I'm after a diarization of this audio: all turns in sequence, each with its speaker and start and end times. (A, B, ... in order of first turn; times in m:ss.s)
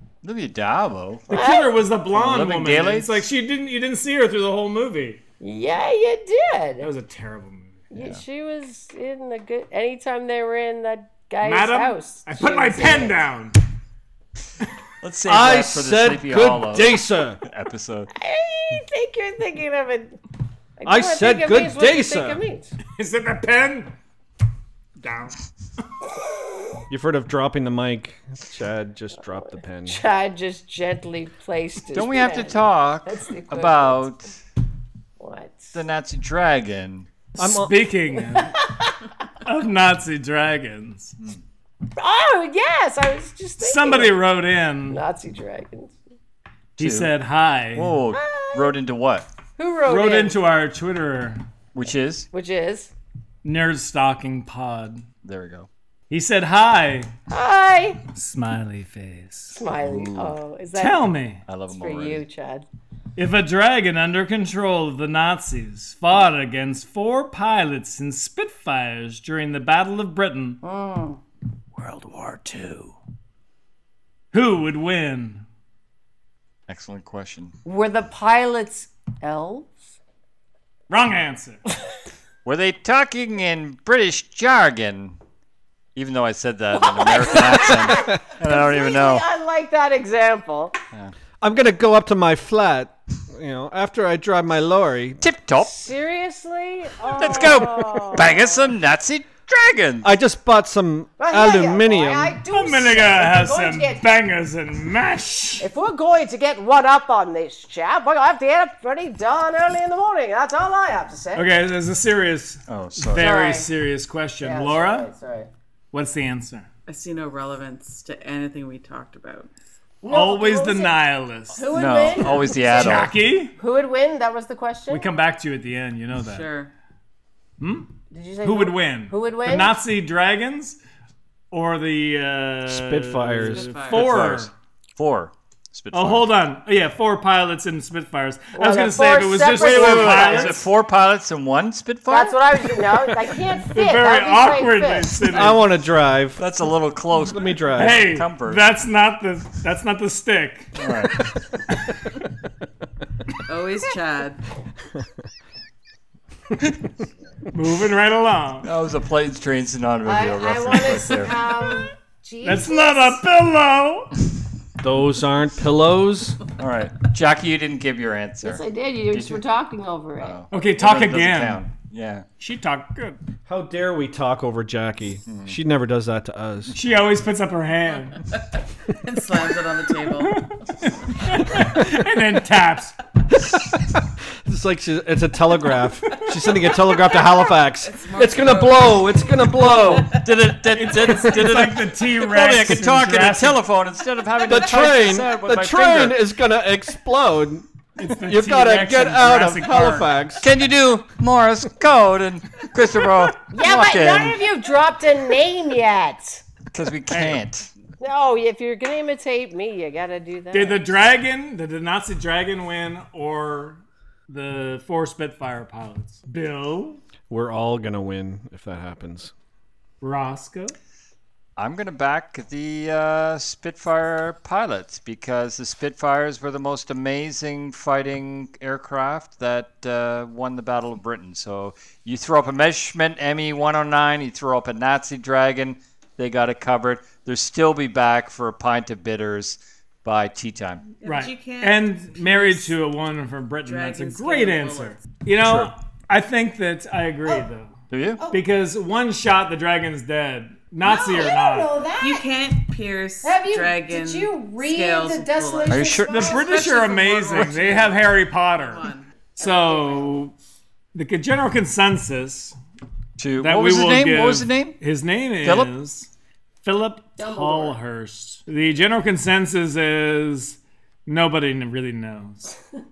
0:00.2-0:01.4 A
0:01.3-0:05.2 B
0:01.3-0:01.8 C
0:02.1-0:03.3 A
0:05.4-0:06.9 C
0:06.8-0:07.8 B
0:07.9-0:13.2 C
0:08.0-0:08.2 A
0:11.4-0:13.6 B
0:15.0-0:18.1 A
0:15.2-0:17.4 D
0:18.2-0:20.2 C
0:20.8-0:22.8 C
0:20.8-0:22.4 D
0:23.0-0:23.9 B
0:25.0-0:25.4 B
0:26.9-0:30.0 D
0:29.3-0:34.0 C
0:31.9-0:34.3 A
0:35.2-0:35.8 C
0:35.7-0:37.1 A
0:37.4-0:38.7 B
0:37.4-0:37.8 D
0:38.2-0:39.0 C
0:39.4-0:41.2 B
0:42.0-0:44.2 C
0:43.6-0:45.0 B
0:44.9-0:46.0 C
0:46.8-0:47.1 A
0:46.8-0:48.0 B
0:47.8-0:49.3 A
0:48.1-0:48.8 C
0:49.6-0:50.4 C
0:49.9-0:51.4 B
0:51.7-0:52.3 A
0:52.3-0:52.9 C
0:53.4-0:55.0 B
0:55.2-0:55.7 A
0:56.1-0:57.1 B
0:57.3-0:58.0 C
0:58.1-0:59.6 B
0:59.6-1:01.1 C
0:59.8-1:00.4 A
1:00.8-1:01.4 B
1:01.5-1:02.2 A
1:01.7-1:02.7 C
1:03.2-1:10.6 B
1:10.6-1:11.2 C
1:11.8-1:13.0 B
1:14.3-1:15.4 B
1:16.7-1:17.6 A
1:17.6-1:20.0 C
1:20.9-1:21.6 B
1:22.4-1:25.2 A
1:26.0-1:29.3 A
1:26.7-1:30.8 C
1:31.4-1:35.2 D
1:35.2-1:35.8 A
1:35.6-1:38.7 C
1:37.1-1:40.1 A
1:40.0-1:42.4 D
1:41.2-1:44.1 C
1:42.5-1:45.7 B
1:45.6-1:51.5 C
1:51.4-1:55.1 B
1:52.7-1:53.3 A
1:53.2-1:53.7 C
1:54.4-1:55.5 C
1:55.9-1:56.7 B
1:56.9-1:59.5 E
2:00.0-2:05.1 C
2:00.1-2:01.8 B
2:01.7-2:03.2 A
2:02.6-2:03.6 B
2:04.9-2:06.5 B
2:06.2-2:06.7 E
2:07.6-2:10.8 B
2:08.1-2:09.7 C
2:11.5-2:14.5 B
2:12.7-2:13.8 D
2:13.4-2:14.1 E
2:13.9-2:16.3 A
2:15.9-2:20.6 B
2:18.5-2:20.6 C
2:19.5-2:23.1 A
2:22.1-2:25.2 C
2:23.7-2:25.7 B
2:25.3-2:26.4 D
2:26.4-2:28.7 A
2:27.1-2:28.2 D
2:27.8-2:30.8 B
2:30.8-2:31.3 A
2:33.5-2:34.4 E
2:37.5-2:38.7 B
2:38.6-2:41.5 A
2:40.0-2:43.2 C
2:42.4-2:44.1 B
2:44.8-2:46.4 D
2:46.5-2:49.4 A
2:48.4-2:50.4 C
2:50.2-2:52.3 A
2:50.5-2:51.7 B
2:52.4-2:53.2 B
2:53.5-2:56.8 D
2:55.3-2:55.6 A
2:56.7-2:58.3 B
2:58.9-3:00.5 E
3:00.3-3:03.0 B
3:03.3-3:10.2 D
3:07.8-3:10.2 E
3:10.1-3:16.2 A
3:10.7-3:13.6 B
3:14.4-3:20.5 D
3:18.0-3:20.1 B
3:20.4-3:24.4 A
3:23.5-3:26.4 C
3:26.7-3:27.7 A
3:27.1-3:27.4 B
3:28.0-3:30.9 C
3:30.5-3:37.0 B
3:37.3-3:39.3 D
3:40.0-3:40.8 B
3:41.6-4:00.9 A
4:01.0-4:02.8 E
4:01.0-4:07.8 B
4:03.6-4:05.0 E
4:07.9-4:08.2 A
4:08.3-4:11.8 B
4:10.8-4:12.3 C
4:12.0-4:20.0 E
4:13.2-4:16.5 C
4:15.7-4:16.3 A
4:16.0-4:20.4 B
4:19.4-4:20.0 C
4:20.9-4:22.6 B
4:23.2-4:24.8 A
4:23.4-4:26.1 B
4:25.4-4:25.7 A
4:26.6-4:32.5 B
4:27.2-4:27.8 C